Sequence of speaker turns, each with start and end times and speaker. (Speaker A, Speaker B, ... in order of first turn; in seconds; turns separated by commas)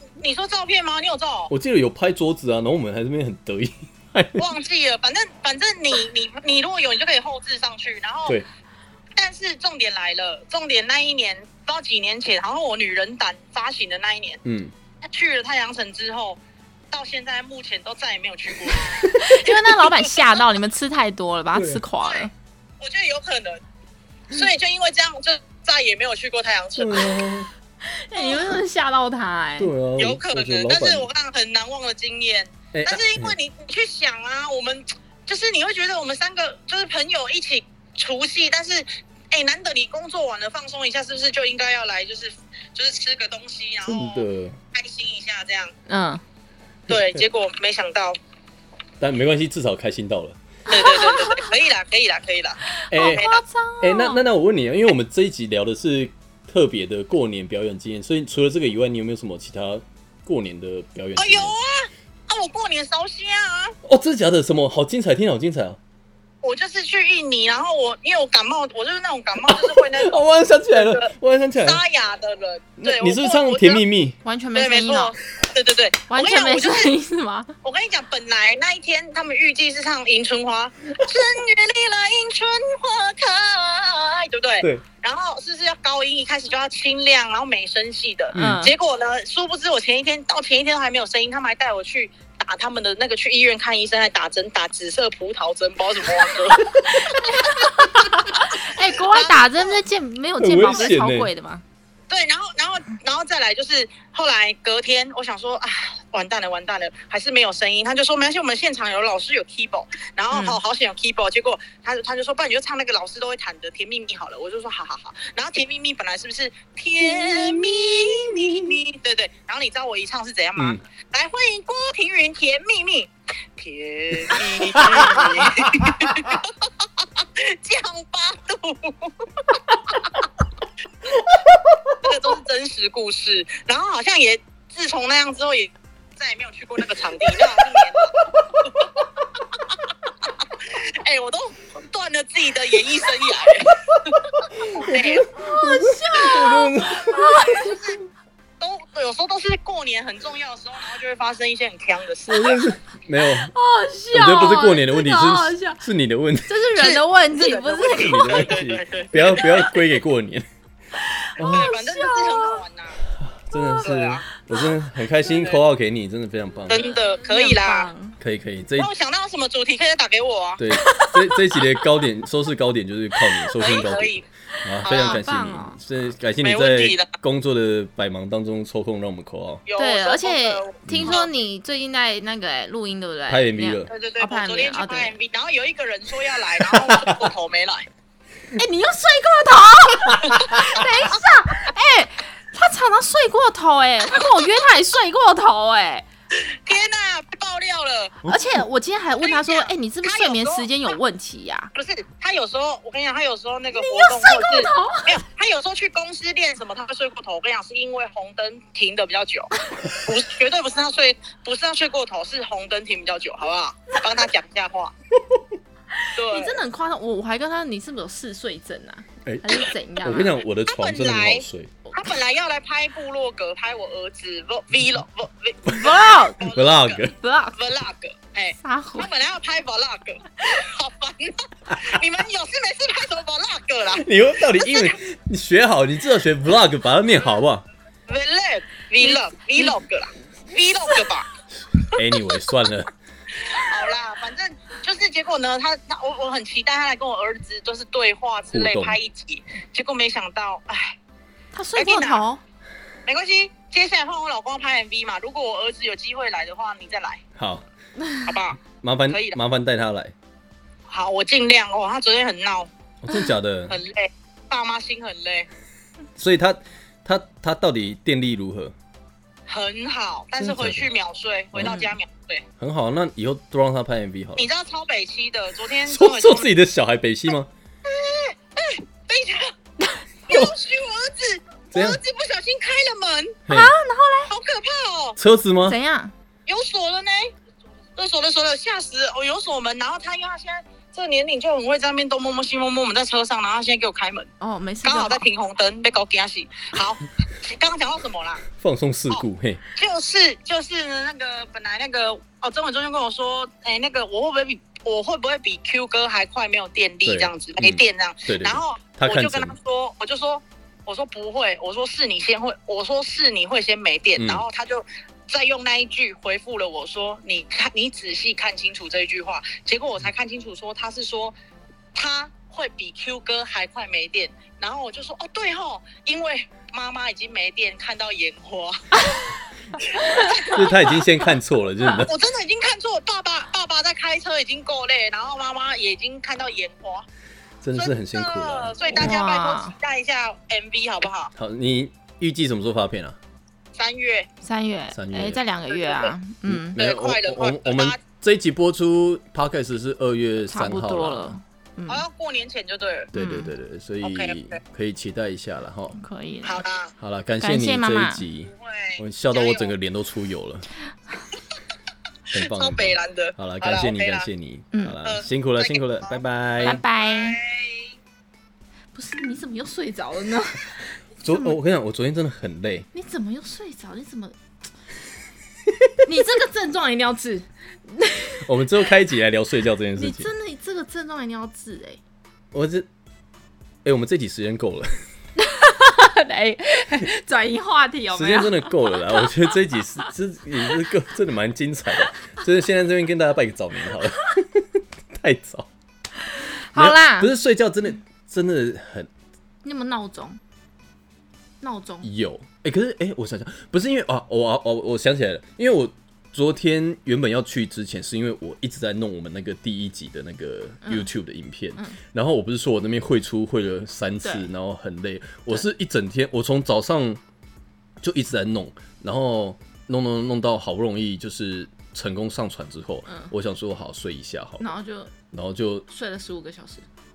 Speaker A: 0.2-1.5, Speaker B: 1.5-4.5, Speaker A: 4.4-8.4, Speaker A: 9.2-14.4, Speaker B: 14.4-14.7, Speaker A: 15.1-16.4, Speaker A: 16.9-20.2, Speaker C: 19.1-22.3, Speaker B: 21.5-21.8, Speaker A: 22.8-23.6, Speaker A: 24.3-27.3, Speaker B: 26.8-27.5, Speaker C: 27.8-29.7, Speaker A: 28.2-28.5, Speaker B: 29.6-31.1, Speaker A: 30.0-45.7, Speaker B: 32.7-33.4, Speaker B: 43.9-44.6, Speaker C: 45.9-46.2, Speaker A: 46.9-48.2, Speaker B: 46.9-47.2, Speaker B: 49.0-50.4, Speaker C: 50.7-51.5, Speaker A: 50.7-53.4, Speaker C: 52.8-54.2, Speaker B: 52.9-53.2, Speaker B: 53.8-61.5, Speaker A: 61.2-63.8, Speaker B: 63.8-65.8, Speaker A: 66.4-70.2, Speaker B: 69.4-71.8, Speaker A: 70.7-73.8, Speaker B: 72.8-74.2, Speaker C: 74.2-75.2, Speaker A: 74.5-76.9, Speaker C: 76.1-77.6, Speaker A: 77.6-99.8, Speaker C: 88.3-88.7, Speaker B: 88.3-88.7, Speaker C: 96.9-101.6, Speaker B: 100.4-101.3, Speaker A: 102.1-130.3, Speaker C: 110.3-110.6, Speaker B: 117.0-118.8, Speaker B: 120.6-120.8, Speaker B: 124.3-126.4, Speaker A: 131.0-131.4, Speaker A: 132.0-138.9, Speaker B: 138.3-138.6, Speaker A: 139.7-144.2, Speaker B: 144.4-147.3, Speaker A: 144.8-145.3, Speaker C: 144.9-147.8, Speaker A: 147.1-148.0, Speaker A: 148.6-152.6, Speaker B: 152.3-153.5, Speaker C: 153.2-155.8, Speaker B: 154.1-156.6, Speaker C: 156.5-158.6, Speaker A: 156.8-159.7, Speaker B: 157.9-160.4, Speaker C: 159.3-159.7, Speaker C: 161.0-162.6, Speaker B: 161.4-161.7, Speaker A: 161.5-163.0, Speaker B: 163.1-166.9, Speaker C: 163.5-163.9, Speaker A: 163.8-164.2, Speaker A: 165.3-165.6, Speaker A: 166.7-167.9, Speaker C: 166.7-168.2, Speaker B: 168.2-168.9, Speaker A: 168.8-170.6, Speaker B: 170.6-179.6, Speaker C: 170.7-172.0, Speaker C: 173.2-173.7, Speaker A: 173.6-174.2, Speaker C: 174.6-175.8, Speaker A: 174.8-175.2, Speaker A: 176.4-177.1, Speaker A: 179.7-181.3, Speaker C: 179.8-185.1, Speaker B: 180.9-181.2, Speaker B: 183.3-183.9, Speaker A: 183.9-187.9, Speaker B: 186.8-187.1, Speaker C: 188.5-196.1, Speaker A: 196.4-198.2, Speaker B: 198.2-198.6, Speaker C: 198.3-201.7, Speaker A: 199.2-200.9, Speaker A: 201.8-214.9, Speaker C: 203.7-205.2, Speaker C: 216.0-220.3, Speaker A: 216.2-216.6, Speaker B: 219.2-221.7, Speaker A: 220.7-227.0, Speaker C: 225.7-226.5, Speaker B: 226.5-227.1, Speaker C: 227.1-227.6, Speaker A: 227.6-234.9, Speaker C: 228.6-229.1, Speaker B: 233.9-237.6, Speaker A: 238.1-241.3, Speaker C: 239.0-239.8, Speaker B: 241.8-242.9, Speaker A: 243.4-251.0, Speaker B: 248.5-249.0, Speaker C: 251.5-252.4, Speaker A: 251.8-252.2, Speaker A: 253.1-257.2, Speaker B: 257.4-257.7, Speaker A: 258.2-259.4, Speaker B: 258.7-260.1, Speaker A: 260.9-262.7, Speaker B: 263.0-263.8, Speaker A: 263.7-265.5, Speaker B: 266.2-268.7, Speaker A: 269.5-272.4, Speaker B: 270.4-270.9, Speaker B: 271.5-271.8, Speaker C: 271.6-271.9, Speaker B: 272.6-274.5, Speaker A: 274.4-276.5, Speaker B: 275.9-277.5, Speaker A: 277.9-279.5, Speaker A: 280.3-283.4, Speaker B: 281.7-282.0, Speaker B: 283.5-283.7, Speaker C: 283.5-284.3, Speaker A: 284.3-285.2, Speaker B: 285.2-285.8, Speaker C: 285.6-286.1, Speaker A: 286.5-287.3, Speaker A: 288.0-294.3, Speaker C: 294.4-295.3, Speaker A: 294.8-298.5, Speaker B: 298.5-299.6, Speaker A: 299.8-321.4, Speaker B: 307.1-309.6, Speaker B: 314.2-314.4, Speaker A: 321.9-328.9, Speaker C: 329.0-330.6, Speaker A: 329.9-330.8, Speaker B: 330.3-332.1, Speaker A: 331.9-337.1, Speaker B: 337.6-339.1, Speaker A: 337.8-341.3, Speaker C: 338.9-339.8, Speaker B: 341.4-343.2, Speaker A: 343.8-344.3, Speaker C: 344.4-346.8, Speaker B: 344.9-345.4, Speaker A: 345.7-346.1, Speaker B: 346.5-351.4, Speaker A: 346.8-348.0, Speaker C: 350.5-352.1, Speaker A: 351.9-353.1, Speaker B: 353.1-356.0, Speaker C: 353.1-353.5, Speaker A: 354.0-354.6, Speaker C: 356.0-356.6, Speaker A: 356.4-356.9, Speaker B: 357.0-360.7, Speaker C: 357.4-358.2, Speaker A: 358.5-359.7, Speaker A: 362.3-364.3, Speaker B: 362.3-366.8, Speaker C: 364.7-365.0, Speaker A: 365.1-367.9, Speaker C: 366.6-367.4, Speaker C: 368.9-371.6, Speaker B: 371.2-372.9, Speaker C: 372.9-374.4, Speaker C: 376.1-378.4, Speaker B: 378.4-380.3, Speaker C: 380.0-382.0, Speaker B: 382.5-382.9, Speaker B: 383.8-384.9, Speaker C: 385.4-389.2, Speaker B: 388.1-395.7, Speaker C: 396.3-397.3, Speaker B: 396.7-399.1, Speaker C: 399.6-400.4, Speaker C: 401.6-402.1, Speaker B: 402.0-417.2, Speaker C: 410.8-411.1, Speaker C: 414.2-414.5, Speaker B: 418.0-424.7, Speaker C: 423.1-423.3, Speaker C: 424.6-425.1, Speaker B: 425.3-425.9, Speaker C: 425.9-426.9